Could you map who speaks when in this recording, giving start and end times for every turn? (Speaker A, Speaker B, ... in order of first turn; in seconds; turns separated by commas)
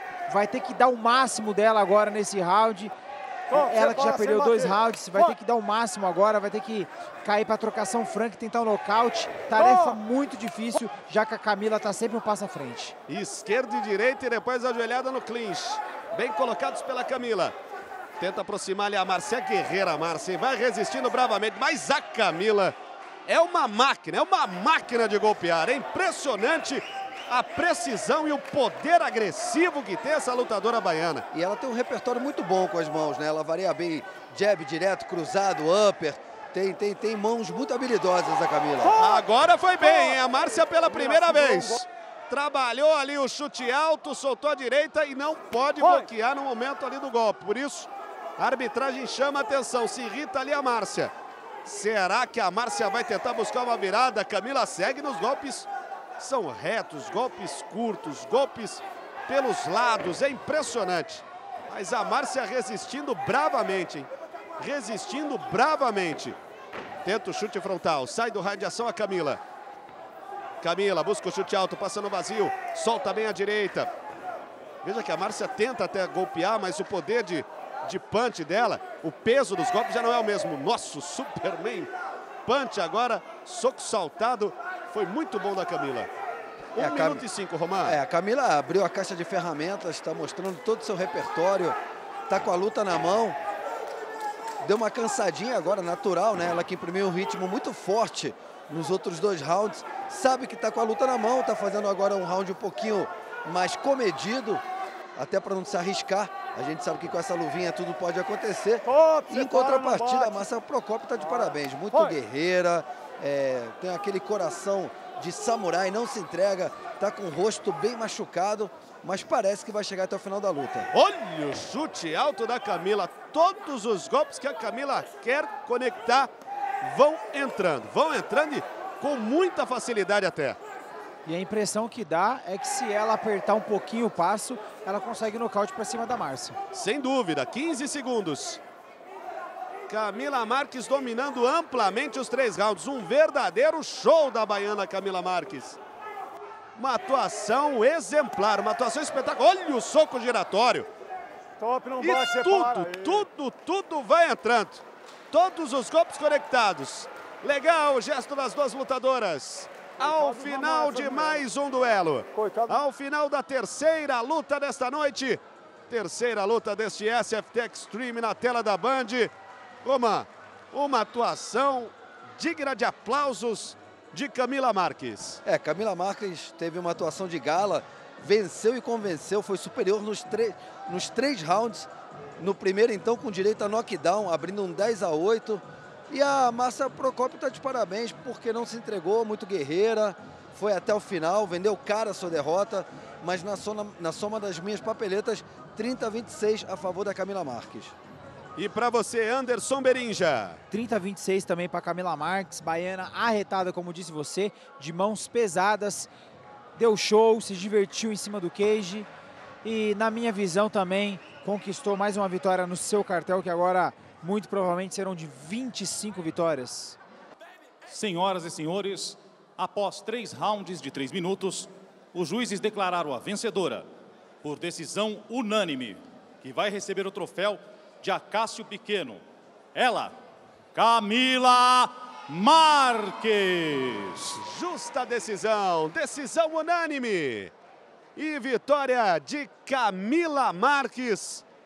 Speaker A: 0.3-2.9, Speaker A: 3.5-12.9, Speaker B: 13.1-17.5, Speaker B: 18.2-22.7, Speaker B: 23.3-31.2, Speaker C: 31.3-39.0, Speaker B: 38.9-51.1, Speaker B: 51.6-66.4, Speaker B: 67.0-69.4, Speaker B: 70.6-73.9, Speaker B: 74.8-81.9, Speaker B: 82.4-86.1, Speaker B: 86.7-88.0, Speaker C: 86.8-87.2, Speaker C: 87.8-91.8, Speaker C: 92.3-93.4, Speaker C: 94.6-104.6, Speaker C: 105.2-120.9, Speaker D: 108.9-110.0, Speaker B: 120.9-126.3, Speaker B: 126.8-130.6, Speaker A: 131.2-136.6, Speaker B: 136.7-138.6, Speaker B: 139.9-145.8, Speaker B: 146.8-150.9, Speaker D: 151.6-152.4, Speaker B: 152.0-169.3, Speaker B: 169.8-175.4, Speaker C: 175.4-197.9, Speaker B: 198.6-200.6, Speaker A: 200.7-206.1, Speaker A: 206.7-209.1, Speaker A: 209.6-217.0, Speaker E: 217.9-223.8, Speaker E: 224.4-229.2, Speaker E: 229.7-230.1, Speaker E: 230.7-234.4, Speaker B: 234.4-237.5, Speaker B: 238.2-241.4